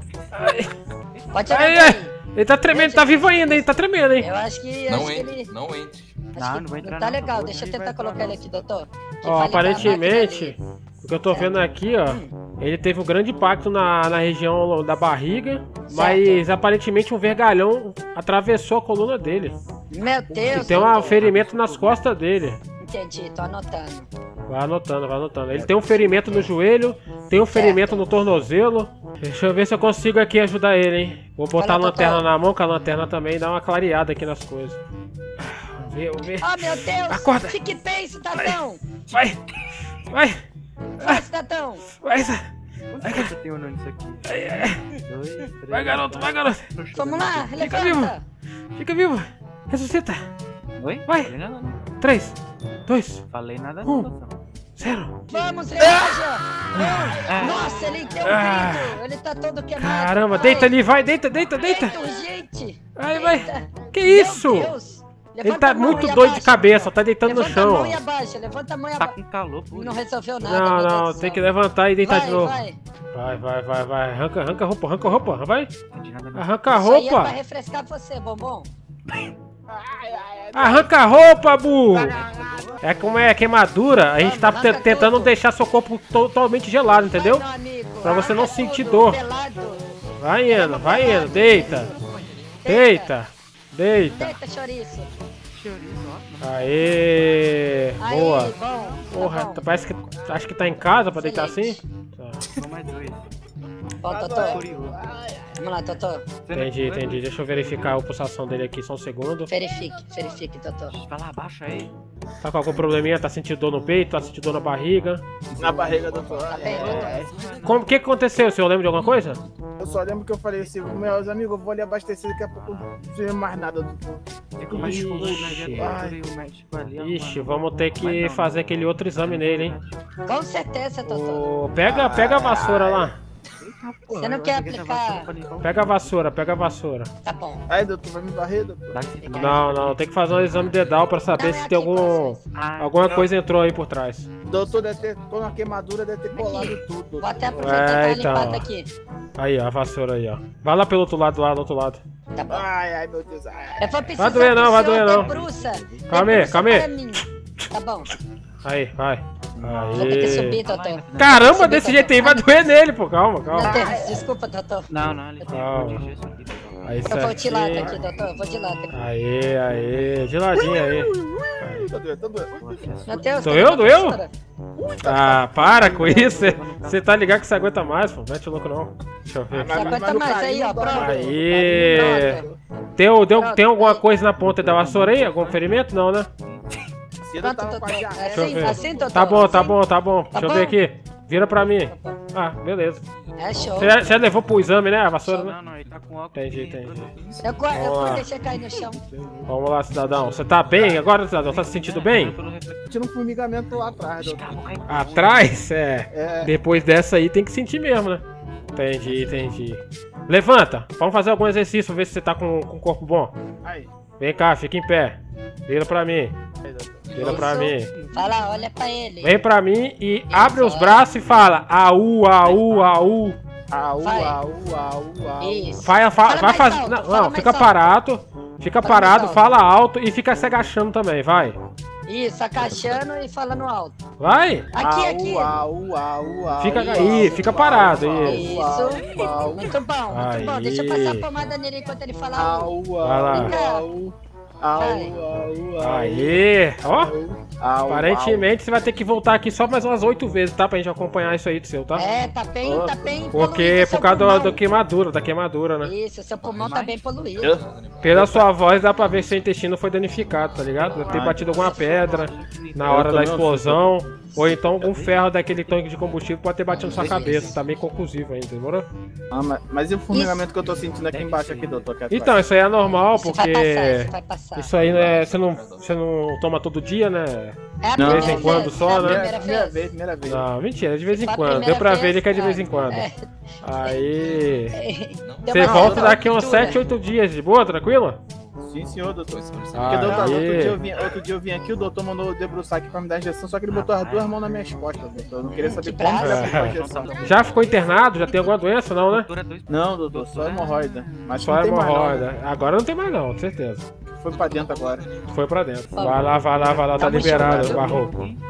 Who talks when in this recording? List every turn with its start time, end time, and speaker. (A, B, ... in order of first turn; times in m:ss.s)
0:00.2-0:01.7 A
0:00.3-0:00.7 B
0:01.3-0:02.1 C
0:01.5-0:04.3 B
0:02.7-0:03.7 C
0:04.2-0:05.5 C
0:04.8-0:06.3 D
0:06.4-0:08.8 A
0:06.4-0:10.6 C
0:09.2-0:19.6 B
0:11.3-0:12.3 C
0:15.9-0:16.4 C
0:19.9-0:21.2 C
0:20.3-0:22.0 A
0:20.5-0:22.6 B
0:22.8-0:24.1 C
0:24.5-0:34.8 B
0:27.5-0:28.0 C
0:31.6-0:32.2 C
0:35.4-0:37.6 B
0:36.4-0:39.0 C
0:38.3-0:39.4 B
0:39.9-0:40.4 B
0:41.0-0:41.8 C
0:41.9-0:42.5 B
0:42.9-0:47.6 A
0:43.0-0:43.3 B
0:44.2-0:44.8 B
0:45.7-0:46.7 B
0:46.9-0:48.2 C
0:47.6-0:48.1 B
0:48.8-0:50.2 B
0:50.8-0:51.8 A
0:51.1-0:51.3 B
0:52.0-0:52.4 B
0:52.9-0:53.2 B
0:53.3-0:54.3 A
0:53.8-0:54.1 B
0:54.8-0:55.2 B
0:55.3-1:00.7 C
0:56.7-0:57.3 B
0:57.2-0:58.0 A
0:58.2-0:59.0 B
0:59.8-1:02.0 B
1:01.6-1:09.2 C
1:03.0-1:04.8 B
1:05.4-1:08.0 B
1:06.6-1:06.9 A
1:09.0-1:10.0 A
1:09.7-1:11.4 C
1:10.4-1:12.6 B
1:12.0-1:12.8 C
1:13.1-1:15.7 B
1:15.9-1:16.6 A
1:16.3-1:17.4 B
1:16.7-1:18.7 C
1:19.7-1:22.8 E
1:20.5-1:22.2 B
1:21.9-1:22.6 C
1:22.0-1:22.8 A
1:22.8-1:27.5 B
1:24.2-1:25.4 C
1:27.1-1:29.8 C
1:28.0-1:29.2 B
1:30.2-1:31.9 B
1:30.5-1:31.9 C
1:31.7-1:32.4 A
1:32.1-1:32.5 D
1:32.6-1:33.1 C
1:32.7-1:34.4 B
1:34.1-1:35.1 C
1:35.5-1:37.5 A
1:36.4-1:38.6 B
1:38.0-1:39.7 C
1:38.3-1:39.1 A
1:39.1-1:42.5 B
1:40.1-1:40.8 A
1:41.1-1:41.8 C
1:42.4-1:43.3 A
1:44.0-1:44.6 C
1:44.1-1:45.5 E
1:44.4-1:45.0 A
1:45.6-1:46.2 C
1:46.4-1:48.0 A
1:46.5-1:49.5 B
1:49.5-1:50.9 C
1:50.9-1:51.9 A
1:52.4-1:55.2 B
1:55.6-1:57.3 E
1:55.6-1:57.9 A
1:56.4-1:57.2 C
1:57.6-1:59.4 B
1:59.8-2:06.2 E
2:00.7-2:01.0 A
2:04.6-2:09.9 A
2:04.7-2:06.0 B
2:07.0-2:09.8 B
2:10.2-2:11.5 C
2:11.0-2:13.2 B
2:11.8-2:13.1 E
2:13.6-2:16.2 A
2:14.1-2:15.3 C
2:15.6-2:17.1 B
2:17.2-2:17.6 C
2:17.7-2:19.0 E
2:18.9-2:21.2 A
2:19.2-2:19.6 C
2:19.4-2:24.3 B
2:21.3-2:22.4 C
2:22.5-2:23.3 A
2:24.5-2:27.8 E
2:26.3-2:28.9 C
2:27.6-2:28.7 B
2:29.4-2:32.0 B
2:32.3-2:32.6 C
2:32.5-2:34.4 E
2:33.8-2:38.1 C
2:34.2-2:35.3 B
2:34.5-2:36.7 A
2:36.1-2:36.9 B
2:38.6-2:40.6 B
2:39.6-2:39.9 E
2:39.6-2:42.0 A
2:39.9-2:42.6 C
2:41.1-2:43.8 B
2:43.5-2:44.9 C
2:43.6-2:44.2 E
2:44.9-2:47.3 A
2:45.5-2:46.0 B
2:46.8-2:48.0 B
2:47.1-2:48.9 C
2:47.4-2:48.4 E
2:48.9-2:51.9 B
2:50.5-2:52.9 E
2:52.5-2:53.8 A
2:53.1-2:54.3 C
2:53.4-2:54.2 B
2:54.8-2:56.1 E
2:55.0-3:00.0 B
2:55.4-2:57.4 A
2:59.5-3:02.6 E
2:59.7-3:02.4 C
3:00.9-3:02.4 B
3:03.0-3:06.3 B
3:03.3-3:04.0 C
3:04.4-3:05.8 A
3:06.4-3:06.8 A
3:07.3-3:09.5 E
3:07.4-3:09.8 C
3:08.3-3:13.0 B
3:10.3-3:10.8 C
3:11.9-3:12.2 C
3:13.4-3:14.1 C
3:13.8-3:15.6 B
3:14.1-3:14.7 A
3:15.2-3:17.5 A
3:16.3-3:17.1 B
3:17.4-3:19.0 C
3:17.7-3:18.3 B
3:19.0-3:19.5 E
3:19.5-3:22.4 B
3:20.1-3:23.0 A
3:22.9-3:24.9 E
3:23.7-3:25.6 A
3:24.9-3:28.2 B
3:26.1-3:26.5 E
3:28.8-3:33.3 B
3:29.0-3:29.3 A
3:34.2-3:36.3 B
3:36.6-3:37.5 E
3:37.1-3:37.4 D
3:37.2-3:37.9 B
3:37.2-3:39.4 C
3:37.7-3:38.7 A
3:39.2-3:43.4 B
3:40.3-3:41.1 C
3:43.7-3:45.8 E
3:44.0-3:44.4 C
3:45.4-3:47.7 C
3:45.8-3:51.6 B
3:48.8-3:49.4 C
3:52.1-3:54.0 C
3:52.6-3:53.0 D
3:54.2-3:54.7 B
3:54.8-3:55.5 C
3:54.8-3:59.7 E
3:56.6-3:58.5 B
3:56.7-4:02.8 C
4:00.1-4:01.3 B
4:02.4-4:08.5 E
4:03.0-4:03.5 B
4:03.3-4:03.9 C
4:04.8-4:05.1 C
4:05.8-4:07.1 B
4:07.9-4:12.1 B
4:11.9-4:14.6 C
4:12.6-4:13.2 E
4:13.3-4:15.9 B
4:15.8-4:17.6 C
4:16.4-4:16.7 D
4:16.6-4:16.9 A
4:17.4-4:19.6 D
4:18.0-4:28.9 B
4:20.1-4:21.3 D
4:20.8-4:23.2 A
4:21.1-4:21.6 E
4:22.8-4:23.9 E
4:24.5-4:25.3 A
4:26.7-4:28.1 D
4:26.8-4:27.5 C
4:27.1-4:27.6 A
4:29.3-4:32.4 E
4:30.1-4:30.4 C
4:30.5-4:32.0 A
4:32.1-4:39.4 B
4:33.1-4:34.8 C
4:34.7-4:36.0 D
4:37.8-4:39.9 C
4:38.0-4:40.5 E
4:40.2-4:43.1 B
4:41.1-4:43.2 C
4:43.6-4:44.8 B
4:43.8-4:46.8 C
4:44.1-4:44.7 D
4:45.2-4:46.7 D
4:45.5-4:48.2 B
4:45.7-4:46.1 E
4:48.6-4:57.4 E
4:49.3-4:51.2 D
4:49.7-4:50.8 B
4:53.7-4:54.5 A
4:55.5-4:56.8 C
4:56.2-4:59.3 B
4:56.3-5:01.4 A
4:59.7-5:02.3 E
5:01.4-5:03.9 B
5:04.1-5:05.1 E
5:04.3-5:05.5 D
5:05.3-5:08.1 B
5:06.0-5:06.3 C
5:06.0-5:08.4 A
5:07.0-5:08.0 E